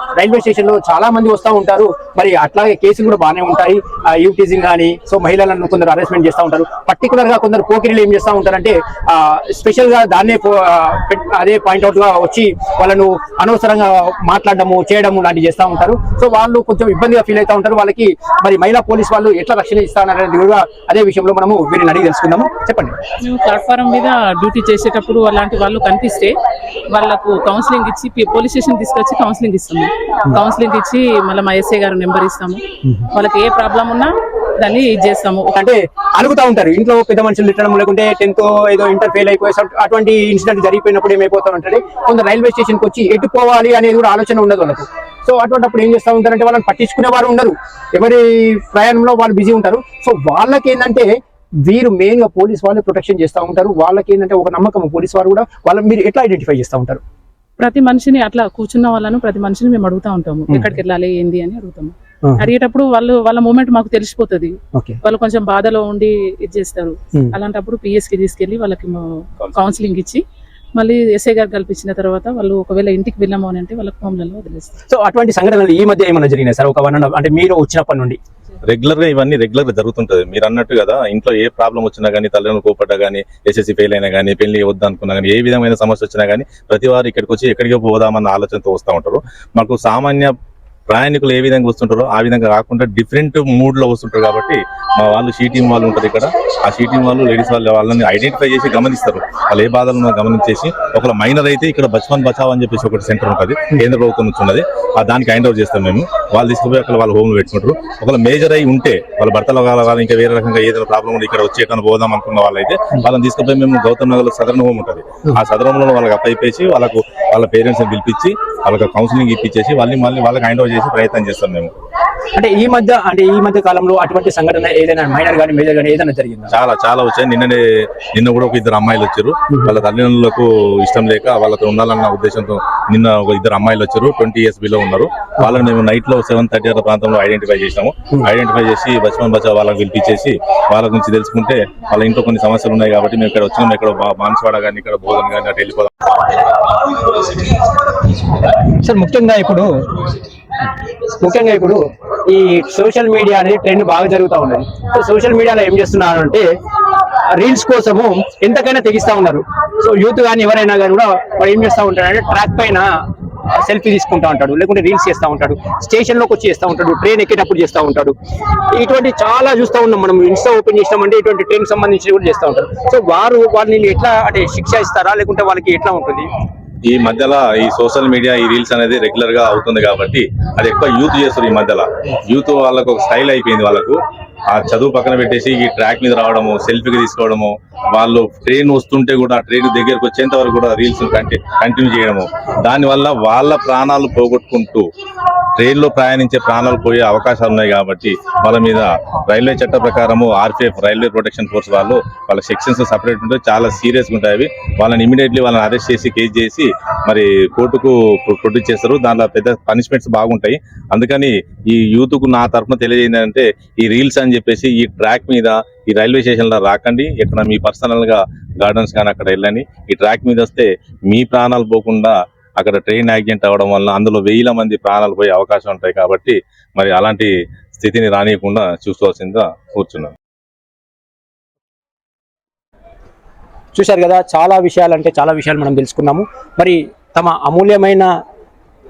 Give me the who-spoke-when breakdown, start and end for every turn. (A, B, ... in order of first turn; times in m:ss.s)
0:00.1-0:23.0 A
0:23.2-0:26.3 B
0:26.9-0:35.5 B
0:32.8-0:33.1 A
0:35.5-0:51.1 A
0:51.6-0:57.0 A
0:57.6-1:10.2 B
1:00.5-1:00.8 A
1:10.8-1:14.8 B
1:14.9-1:18.2 A
1:18.6-1:30.3 C
1:30.9-2:01.7 C
2:02.3-2:06.5 A
2:06.5-2:26.3 C
2:28.5-2:29.9 A
2:31.0-2:36.5 A
2:37.3-2:42.9 A
2:43.5-2:56.3 A
2:56.8-3:14.9 C
3:15.6-3:50.1 C
3:53.7-3:58.1 A